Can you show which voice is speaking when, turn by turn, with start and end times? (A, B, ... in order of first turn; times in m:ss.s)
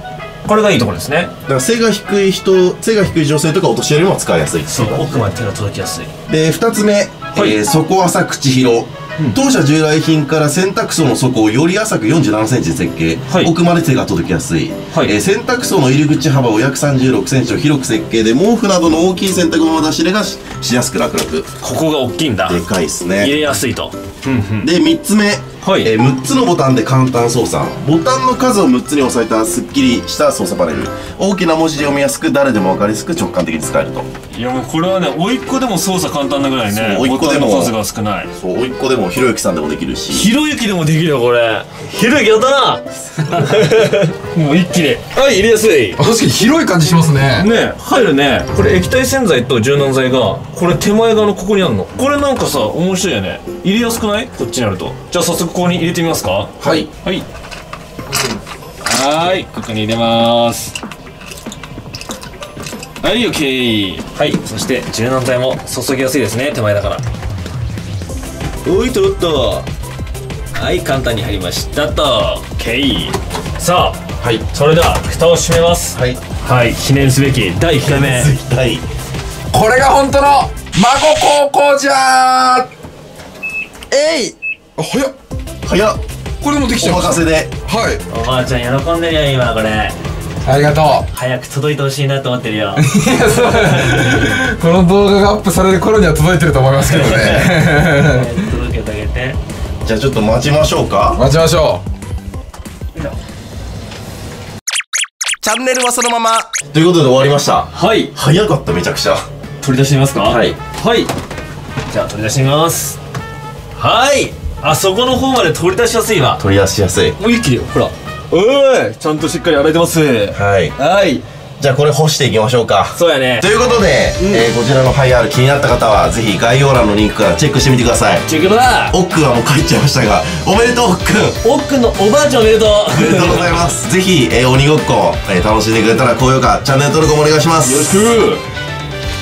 0:00.4-0:01.3 A
0:01.5-0:05.0 B
0:04.7-0:06.1 A
0:06.3-0:21.5 B
0:07.3-0:07.6 A
0:21.6-0:22.6 A
0:22.5-0:23.3 B
0:23.2-0:24.7 A
0:24.6-0:34.1 B
0:25.6-0:25.9 A
0:34.3-0:38.3 A
0:36.7-0:37.7 B
0:38.4-0:40.3 B
0:40.1-0:46.0 A
0:46.0-0:47.5 C
0:47.3-0:57.2 A
0:56.6-0:56.9 B
0:58.8-1:00.7 A
1:03.0-1:07.0 A
1:08.6-1:09.7 A
1:10.5-1:14.0 A
1:14.5-1:18.3 A
1:15.9-1:16.2 B
1:17.8-1:18.8 B
1:19.5-1:22.7 C
1:23.9-1:25.1 C
1:25.6-1:26.0 B
1:26.4-1:28.0 C
1:26.7-1:27.5 B
1:28.1-1:30.0 A
1:30.4-1:31.0 C
1:31.1-1:32.8 A
1:32.8-1:38.3 C
1:33.6-1:33.9 A
1:36.8-1:39.4 A
1:39.8-1:41.2 B
1:41.1-1:41.8 C
1:45.4-1:49.2 B
1:47.7-1:48.1 A
1:49.6-1:51.1 A
1:50.2-1:50.6 B
1:51.9-1:53.0 A
1:53.8-1:56.4 A
1:56.4-1:57.2 B
1:57.2-2:01.2 A
2:00.3-2:00.8 B
2:01.6-2:08.2 B
2:02.9-2:03.5 A
2:04.2-2:04.4 A
2:08.2-2:09.0 A
2:08.9-2:11.4 B
2:11.4-2:13.7 A
2:12.8-2:18.1 B
2:17.6-2:18.4 A